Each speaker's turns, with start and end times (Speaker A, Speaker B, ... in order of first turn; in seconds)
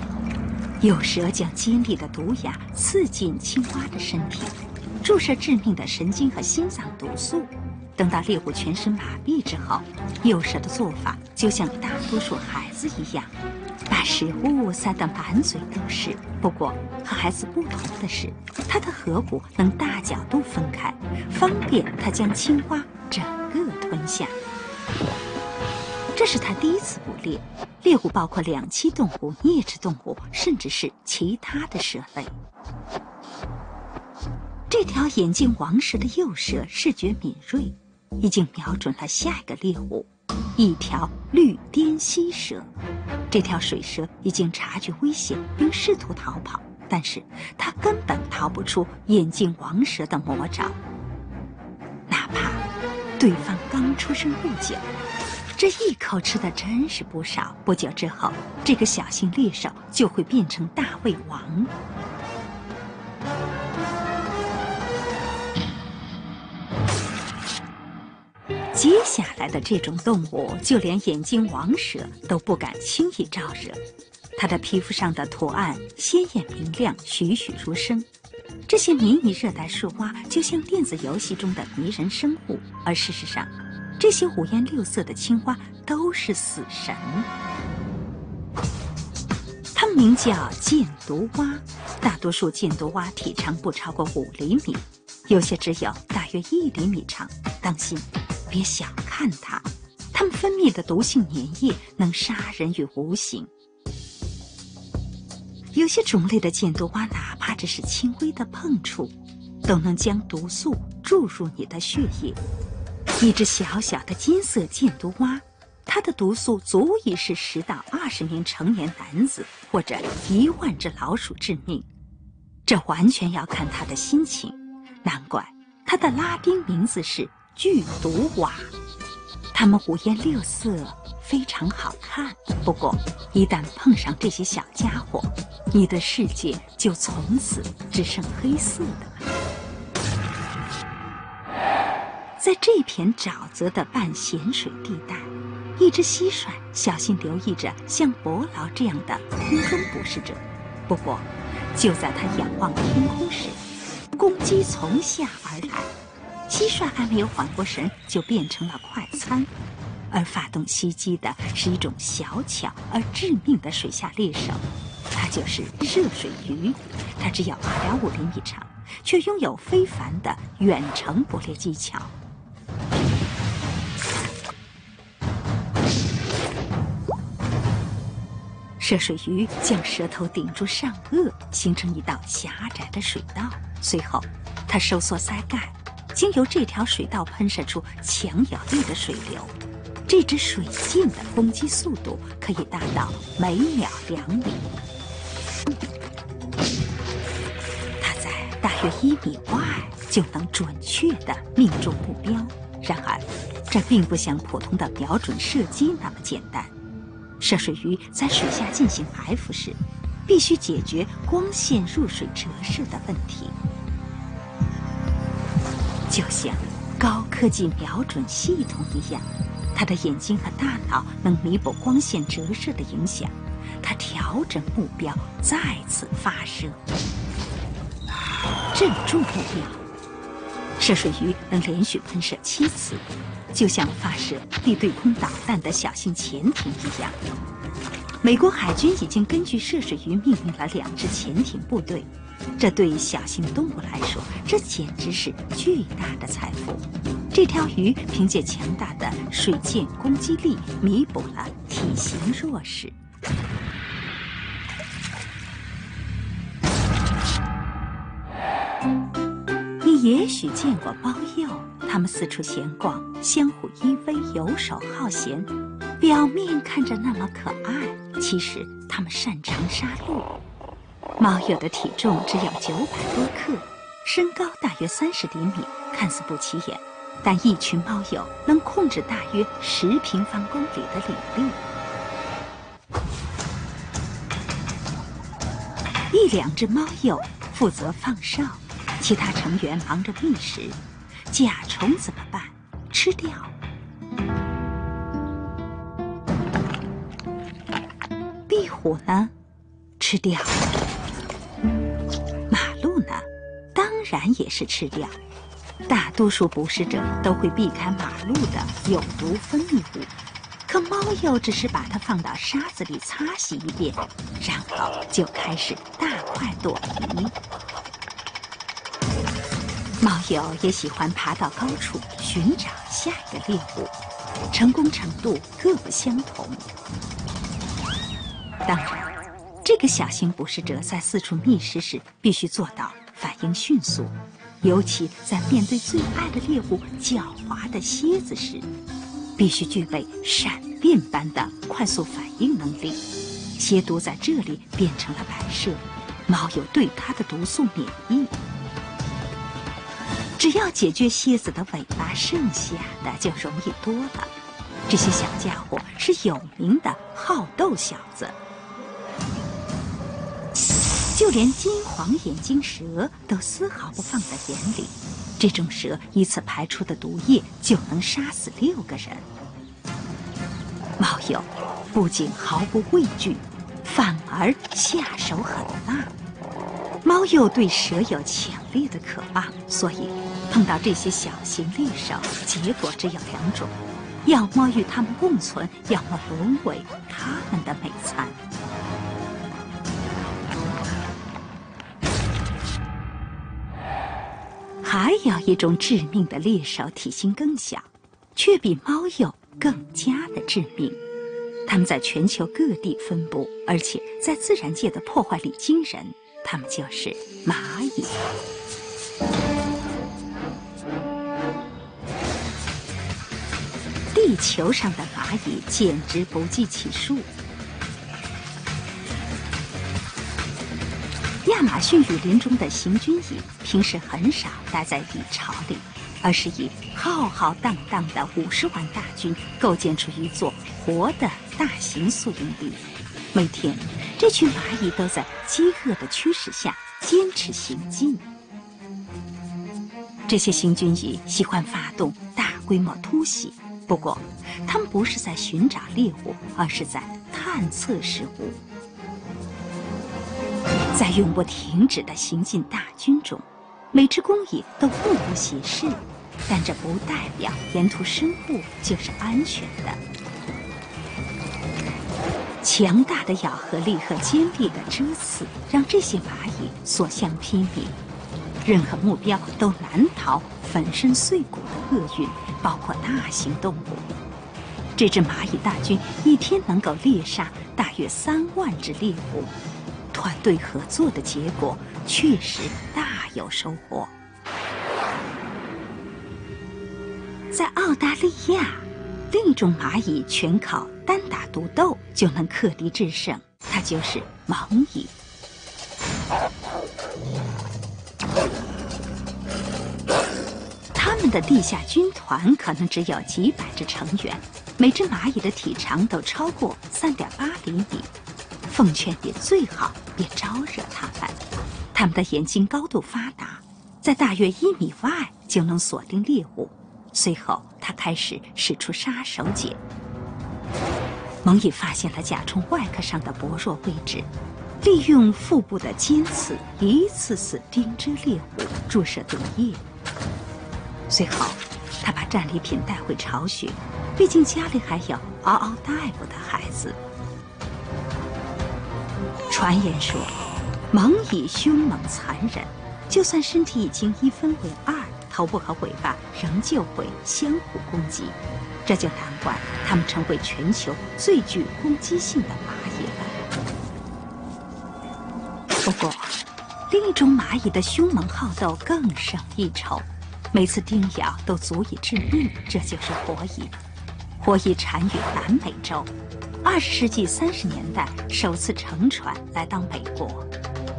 Speaker A: 0.8-13.3, 13.9-24.4, 26.1-32.3, 34.7-42.7, 43.3-50.8, 52.1-52.6, 53.2-54.9, 55.5-61.7, 68.7-73.8, 74.3-78.1, 78.7-87.3, 89.7-103.5, 105.7-109.1, 109.6-112.4, 113.2-121.9, 122.7-128.7, 129.5-139.2, 142.4-153.6, 154.1-155.9, 156.5-159.5, 160.1-172.1, 178.8-189.5, 190.1-194.6, 198.0-206.7, 207.4-213.5, 216.1-226.8, 228.7-229.8, 230.8-237.2, 238.2-252.9, 259.8-270.3, 271.2-281.6, 286.1-293.5, 298.5-299.3, 300.0-300.7, 302.5-305.1, 305.9-310.1, 310.7-317.3, 320.0-323.9, 324.5-326.6, 328.6-338.7, 339.4-343.0, 343.6-348.3, 350.4-354.3, 354.9-358.4, 361.1-369.2, 371.0-376.1, 377.0-388.4, 394.8-401.0, 401.7-408.1, 414.1-417.3, 421.4-438.2, 440.3-448.6, 450.9-460.0, 462.6-467.9, 468.6-474.1, 474.9-479.5, 480.1-484.1, 487.5-495.1, 500.9-508.1, 508.7-511.4, 511.9-519.8, 521.4-524.3, 524.8-529.8, 531.1-537.0, 539.5-540.4, 540.9-553.3, 555.8-556.3, 556.9-563.7, 564.4-566.1, 566.6-570.5